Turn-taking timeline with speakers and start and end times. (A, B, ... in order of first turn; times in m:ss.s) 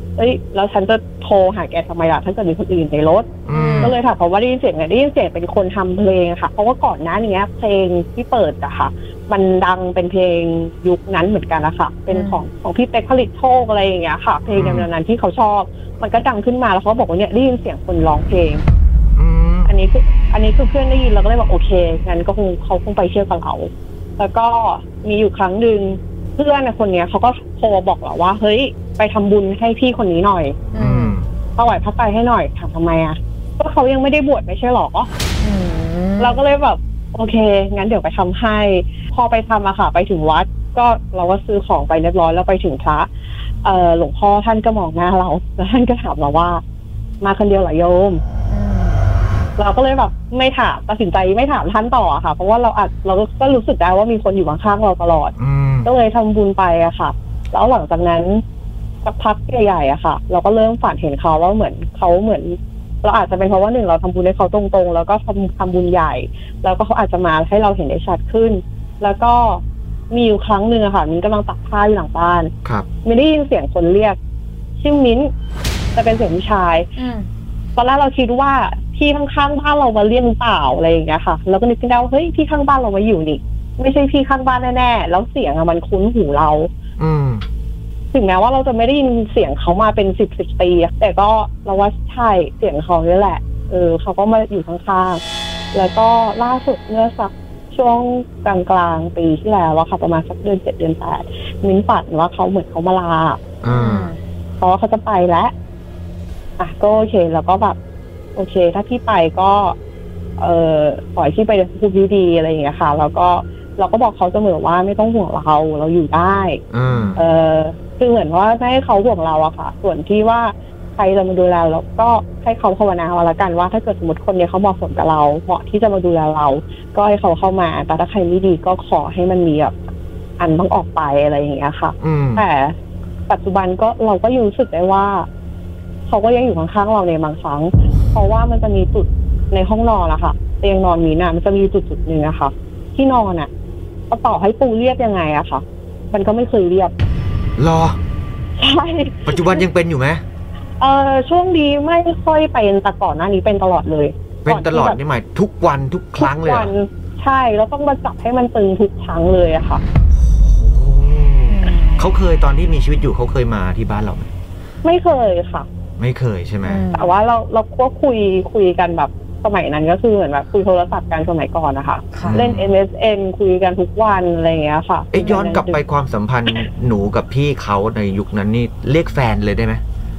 0:00.2-0:18.6 A
0:03.4-0:04.0 B
0:03.5-0:04.0 C
0:12.1-0:12.4 C
0:14.5-0:14.9 B
0:19.1-0:19.7 B
0:19.7-0:30.6 A
0:30.7-0:31.2 C
0:30.8-0:31.3 B
0:31.6-0:35.1 A
0:35.4-0:36.4 C
0:36.2-0:43.1 A
0:43.6-0:46.6 A
0:47.2-0:48.2 A
0:48.5-0:49.0 C
0:49.6-0:58.4 A
0:55.4-0:55.9 B
0:59.0-1:12.5 A
1:13.0-1:14.2 A
1:14.8-1:15.3 A
1:15.9-1:16.9 A
1:17.0-1:17.3 C
1:17.8-1:26.7 A
1:27.0-1:27.4 B
1:28.1-1:35.2 A
1:35.7-1:43.4 A
1:43.6-1:44.1 B
1:43.6-1:44.2 C
1:44.6-1:45.5 A
1:46.6-1:47.8 A
1:48.3-1:49.8 A
1:50.4-1:56.6 A
1:56.7-1:57.2 B
1:57.1-2:09.7 A
2:10.4-2:12.7 A
2:12.0-2:12.4 B
2:13.3-2:15.3 A
2:16.1-2:23.5 A
2:24.1-2:26.9 A
2:27.6-2:28.0 B
2:28.6-2:29.6 A
2:29.3-2:30.2 B
2:30.8-2:35.0 A
2:34.4-2:36.7 B
2:36.2-2:39.8 A
2:40.2-2:44.3 B
2:41.5-2:42.1 C
2:44.8-2:45.7 A
2:46.0-2:46.8 B
2:46.6-2:47.1 C
2:46.9-2:55.8 A
2:52.1-2:52.4 C
2:52.2-2:52.7 B
2:55.1-2:59.8 B